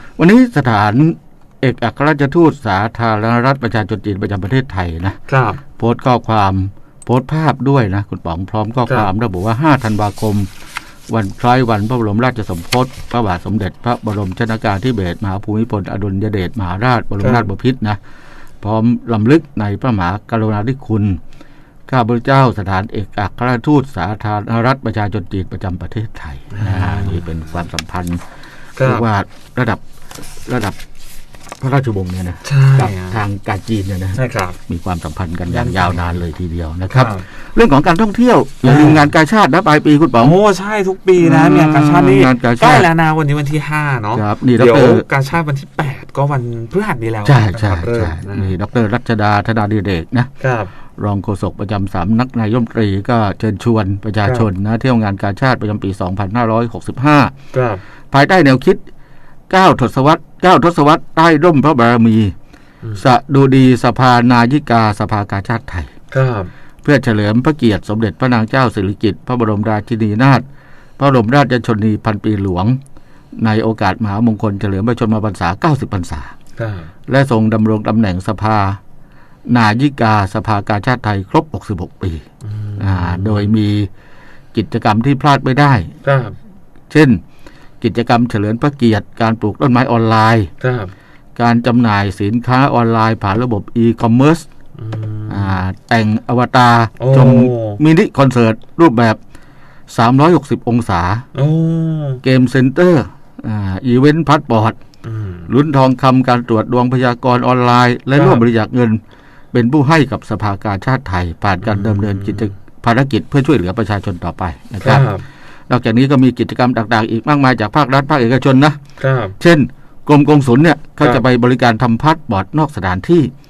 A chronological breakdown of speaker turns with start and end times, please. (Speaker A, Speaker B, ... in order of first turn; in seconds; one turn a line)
Speaker A: 0.2-5.2
Speaker B: 5.3-5.6
Speaker A: 5.7-10.5
Speaker A: 11.1-18.0
Speaker B: 17.2-17.5
Speaker A: 18.6-21.2
Speaker A: 21.9-28.2
Speaker B: 26.5-27.3
Speaker B: 28.8-29.1
Speaker A: 28.8-29.8
Speaker A: 30.5-30.8
Speaker A: 31.6-40.4
Speaker B: 32.4-33.2
Speaker B: 34.1-34.6
Speaker B: 35.5-36.2
Speaker B: 36.9-37.3
Speaker B: 38.6-39.1
Speaker B: 40.2-48.5
Speaker A: 41.2-42.9
Speaker A: 44.1-45.0
Speaker A: 47.3-50.3
Speaker B: 50.4-50.7
Speaker A: 51.0-57.3
Speaker B: 57.5-57.8
Speaker A: 58.1-58.8
Speaker A: 59.5-62.3
Speaker A: 63.0-65.9
Speaker B: 66.1-66.5
Speaker A: 66.8-70.4
Speaker A: 71.0-72.8
Speaker A: 73.4-76.3
Speaker B: 76.6-76.9
Speaker A: 77.1-78.8
Speaker A: 79.5-82.2
Speaker B: 82.4-83.5
Speaker A: 82.8-83.9
Speaker A: 84.5-85.9
Speaker B: 86.0-86.4
Speaker A: 86.9-87.2
Speaker A: 87.8-90.5
Speaker B: 90.6-90.9
Speaker A: 91.4-94.5
Speaker B: 94.8-95.6
Speaker A: 95.3-99.2
Speaker B: 97.0-97.8
Speaker A: 99.9-101.2
Speaker B: 101.3-102.2
Speaker A: 102.2-104.8
Speaker B: 105.0-105.5
Speaker A: 105.5-109.0
Speaker B: 108.2-108.5
Speaker A: 109.5-115.1
Speaker B: 111.6-112.5
Speaker B: 114.8-115.2
Speaker A: 115.7-118.8
Speaker B: 119.0-119.4
Speaker A: 119.4-123.3